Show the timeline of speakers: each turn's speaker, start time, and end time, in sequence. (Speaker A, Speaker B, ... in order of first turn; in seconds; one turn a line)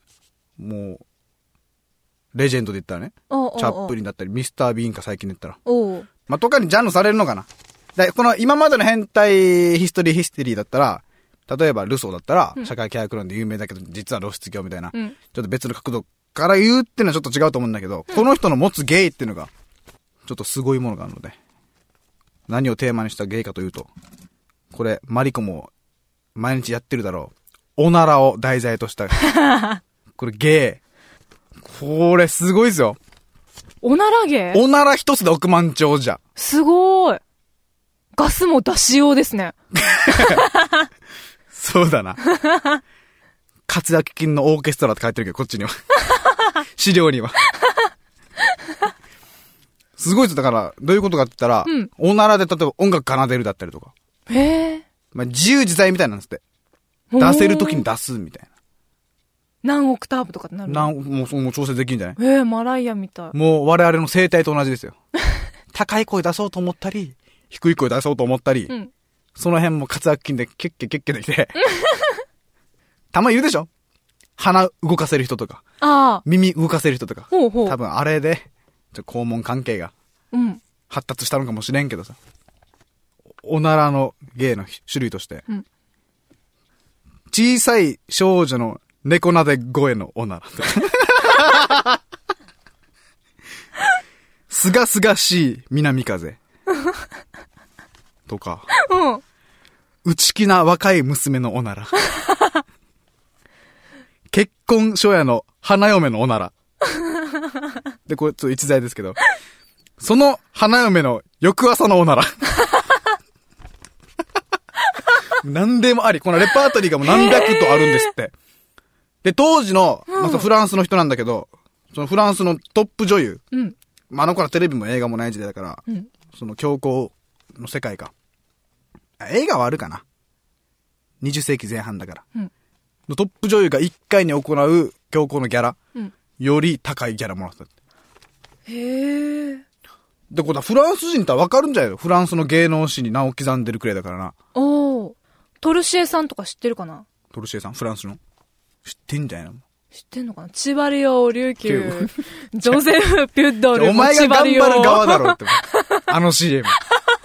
Speaker A: 0.6-1.0
Speaker A: 2.3-5.6
Speaker B: 3.3-3.9
Speaker B: 5.7-6.1
Speaker A: 6.3-19.5
Speaker A: 20.2-21.4
Speaker A: 22.5-23.9
Speaker A: 24.7-25.7
Speaker A: 26.4-29.2
Speaker B: 29.2-29.8
Speaker A: 30.2-30.8
Speaker A: 31.6-33.0
Speaker B: 33.8-34.6
Speaker A: 34.5-36.2
Speaker B: 36.4-37.2
Speaker B: 38.1-39.5
Speaker A: 39.7-40.5
Speaker B: 40.1-40.8
Speaker A: 41.5-42.2
Speaker A: 43.7-45.7
Speaker A: 46.5-47.4
Speaker A: 50.0-53.9
Speaker B: 54.3-54.8
Speaker A: 55.1-56.4
Speaker B: 57.1-57.9
Speaker A: 57.2-58.5
Speaker B: 59.6-60.9
Speaker A: 60.7-62.2
Speaker B: 62.2-63.3
Speaker A: 63.3-65.0
Speaker A: 65.7-68.7
Speaker A: 69.4-71.5
Speaker B: 71.5-72.2
Speaker A: 73.1-73.7
Speaker A: 74.4-75.6
Speaker B: 75.8-76.2
Speaker A: 76.2-79.9
Speaker B: 77.3-77.8
Speaker B: 80.3-80.6
Speaker A: 80.9-82.2
Speaker A: 83.4-85.4
Speaker A: 87.3-92.0
Speaker A: 94.5-96.4
Speaker A: 98.3-98.7
Speaker B: 98.8-99.2
Speaker A: 100.0-102.0
Speaker A: 104.3-106.5
Speaker A: 108.1-109.2
Speaker A: 110.0-112.6
Speaker A: 115.4-118.3
Speaker B: 117.0-118.1
Speaker A: 119.2-123.4
Speaker B: 120.1-120.5
Speaker A: 124.1-128.1
Speaker A: 129.2-130.0
Speaker A: 131.2-132.2
Speaker A: 133.1-135.8
Speaker A: 136.4-137.7
Speaker B: 138.7-139.6
Speaker A: 140.3-144.3
Speaker B: 144.5-147.0
Speaker A: 147.3-148.2
Speaker A: 148.8-149.6
Speaker B: 149.9-156.0
Speaker A: 151.6-152.1
Speaker A: 153.7-156.8